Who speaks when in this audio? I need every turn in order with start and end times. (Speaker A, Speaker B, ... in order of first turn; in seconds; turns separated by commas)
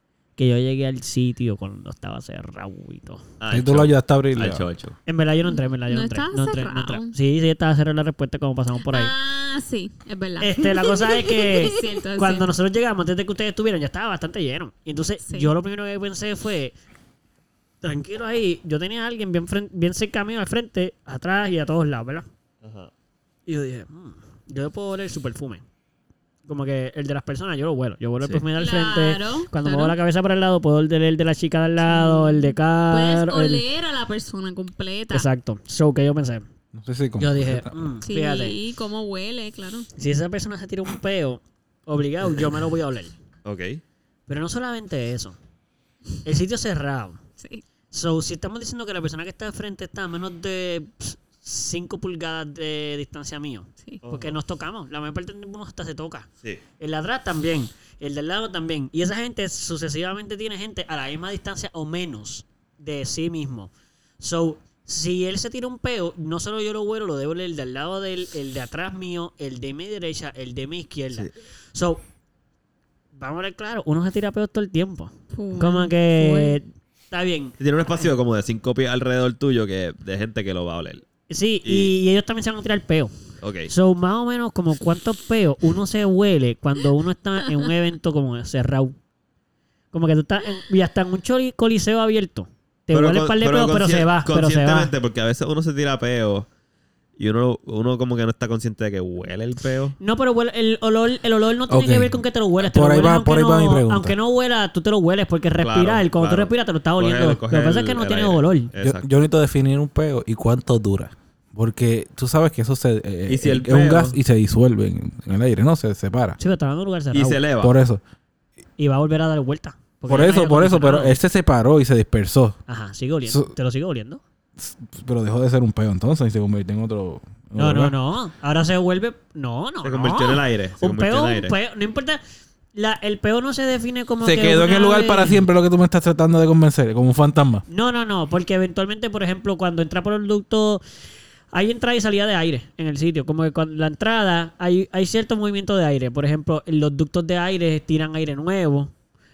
Speaker A: 0.4-3.2, Speaker B: 3.4-5.0, Speaker C: 3.5-4.6, Speaker A: 5.1-9.1, Speaker D: 5.5-7.1, Speaker D: 8.9-12.5, Speaker A: 10.4-16.8, Speaker D: 15.2-15.5, Speaker A: 17.8-22.3, Speaker B: 22.6-22.9, Speaker A: 23.4-25.6, Speaker A: 26.5-33.6, Speaker B: 28.2-28.4, Speaker D: 28.6-29.9, Speaker D: 31.8-35.3, Speaker A: 35.1-36.4, Speaker C: 36.7-37.8, Speaker A: 37.2-38.6, Speaker D: 38.0-39.9, Speaker A: 40.0-43.1, Speaker B: 43.4-43.8, Speaker A: 44.3-45.4, Speaker A: 46.2-47.2, Speaker D: 47.4-47.6, Speaker A: 47.9-56.3, Speaker B: 54.0-54.4, Speaker A: 56.8-72.0, Speaker A: 73.1-78.1, Speaker D: 75.3-76.6, Speaker B: 77.6-81.0, Speaker A: 81.3-83.1, Speaker B: 81.6-81.9, Speaker B: 83.4-83.7, Speaker A: 83.7-89.0, Speaker A: 89.9-94.9, Speaker B: 92.9-96.5, Speaker B: 97.2-100.0, Speaker A: 100.0-108.7, Speaker C: 101.7-104.2, Speaker B: 105.6-109.1, Speaker C: 108.8-116.4, Speaker B: 113.3-114.2, Speaker A: 116.4-117.4, Speaker B: 117.1-117.7, Speaker C: 117.6-118.0, Speaker A: 118.8-121.2, Speaker C: 120.1-122.6, Speaker A: 122.7-124.2, Speaker C: 123.2-123.5, Speaker C: 124.6-128.0, Speaker A: 127.6-132.2, Speaker B: 129.8-131.6, Speaker A: 132.8-135.4, Speaker C: 134.2-137.6, Speaker A: 137.7-140.8, Speaker A: 141.5-148.9